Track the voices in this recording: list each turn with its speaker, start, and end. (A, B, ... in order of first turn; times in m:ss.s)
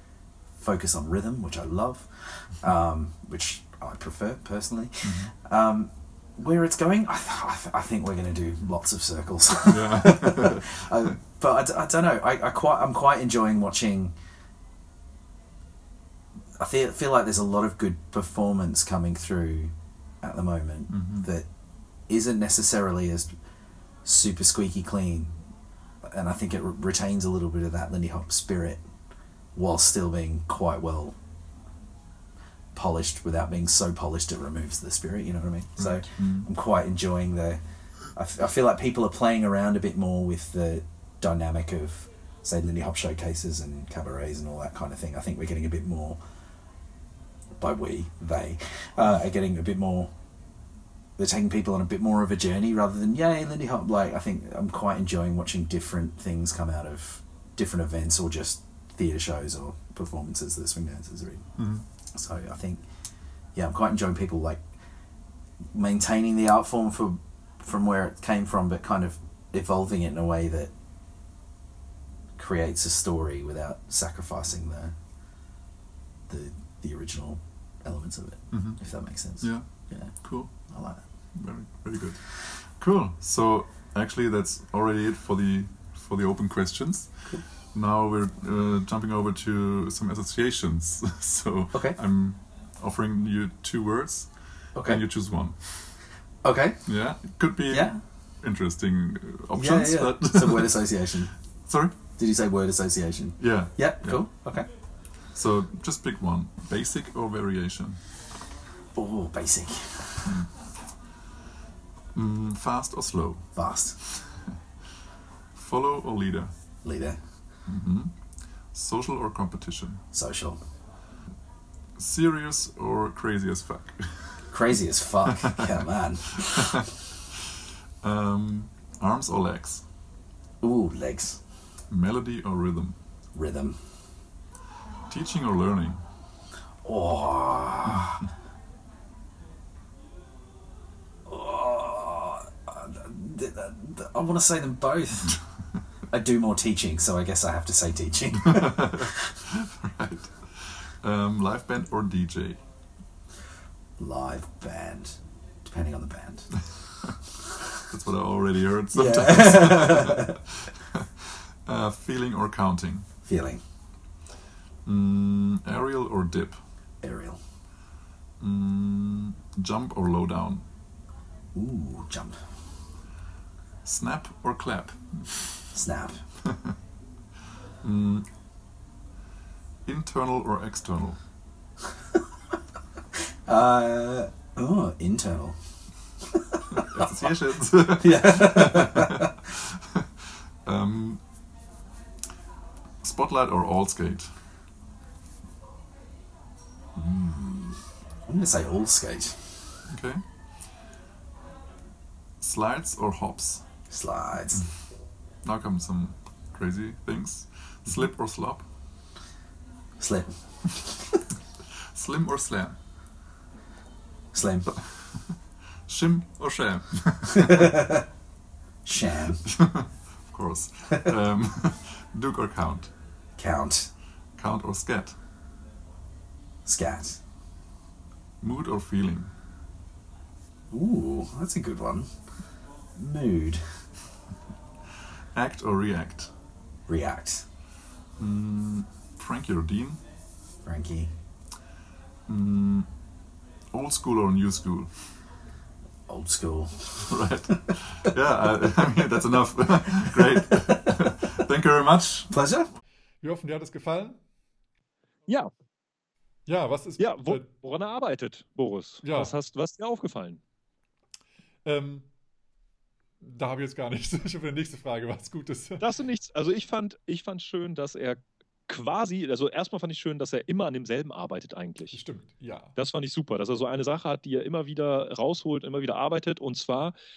0:00.6-0:14.1 A
0:05.0-0:05.3 B
0:09.7-0:11.1 B
0:16.6-0:21.5 A
0:20.9-0:21.3 B
0:22.1-0:23.3 A
0:24.0-0:25.4 A
0:26.0-0:28.8 A
0:29.5-0:31.2 A
0:32.7-0:46.2 A
0:35.8-0:36.5 B
0:47.6-0:50.1 A
0:51.2-1:02.8 A
1:01.6-1:01.8 B
1:03.5-1:04.7 A
1:05.7-1:10.7 A
1:12.4-1:14.9 A
1:16.3-1:21.0 A
1:18.5-1:36.0 B
1:31.7-1:32.0 A
1:34.7-1:35.0 A
1:36.4-1:37.1 A
1:36.8-1:42.0 B
1:37.7-1:38.2 A
1:39.5-1:41.3 A
1:42.1-1:44.8 A
1:43.4-1:44.4 B
1:45.2-1:48.0 B
1:48.9-1:50.4 A
1:52.1-1:54.5 B
1:53.5-1:54.0 A
1:55.5-1:56.5 B
1:56.8-1:57.2 A
1:57.6-2:00.0 B
2:00.1-2:00.6 A
2:02.0-2:04.4 B
2:04.5-2:06.8 A
2:05.3-2:05.8 B
2:06.5-2:06.9 B
2:08.0-2:09.8 B
2:10.6-2:11.4 A
2:11.9-2:13.0 B
2:13.3-2:13.9 A
2:15.1-2:16.0 B
2:16.8-2:18.2 A
2:21.2-2:25.4 A
2:26.1-2:29.2 A
2:28.4-2:32.6 B
2:34.0-2:36.5 A
2:36.6-2:37.1 B
2:37.9-2:43.1 B
2:38.9-2:40.3 A
2:43.2-2:43.6 A
2:44.8-2:46.6 B
2:47.0-2:47.4 A
2:48.4-2:50.6 B
2:51.5-2:52.4 A
2:53.8-2:55.7 B
2:55.7-2:56.2 A
2:56.4-2:56.7 B
2:57.8-2:58.3 B
2:59.8-3:01.2 B
3:03.4-3:05.6 A
3:06.3-3:07.4 A
3:06.8-3:10.0 B
3:08.0-3:09.3 A
3:10.6-3:11.3 B
3:13.0-3:14.3 B
3:17.0-3:19.6 A
3:19.9-3:20.2 B
3:22.4-3:23.6 B
3:23.9-3:24.7 A
3:25.4-3:28.6 B
3:30.0-3:30.9 A
3:31.9-3:32.8 B
3:34.3-3:34.7 A
3:34.7-3:35.4 B
3:35.9-3:37.8 B
3:37.5-3:37.8 A
3:38.8-3:39.4 A
3:39.4-3:42.9 B
3:43.4-3:43.9 A
3:44.4-3:45.2 B
3:46.6-3:47.2 A
3:48.4-3:49.3 B
3:50.7-3:52.1 A
3:53.0-3:53.8 A
3:55.3-3:56.3 B
3:56.9-3:57.5 A
3:58.2-4:00.0 B
4:00.6-4:01.1 A
4:02.3-4:02.9 B
4:03.7-4:05.1 B
4:06.1-4:07.6 A
4:07.0-4:12.3 B
4:10.1-4:10.8 A
4:12.3-4:12.7 A
4:13.2-4:14.2 C
4:16.5-4:17.5 C
4:17.0-4:20.4 D
4:19.0-4:19.3 C
4:21.6-4:22.1 C
4:23.2-4:25.9 C
4:25.8-4:32.0 D
4:31.9-4:32.8 C
4:32.8-4:36.9 D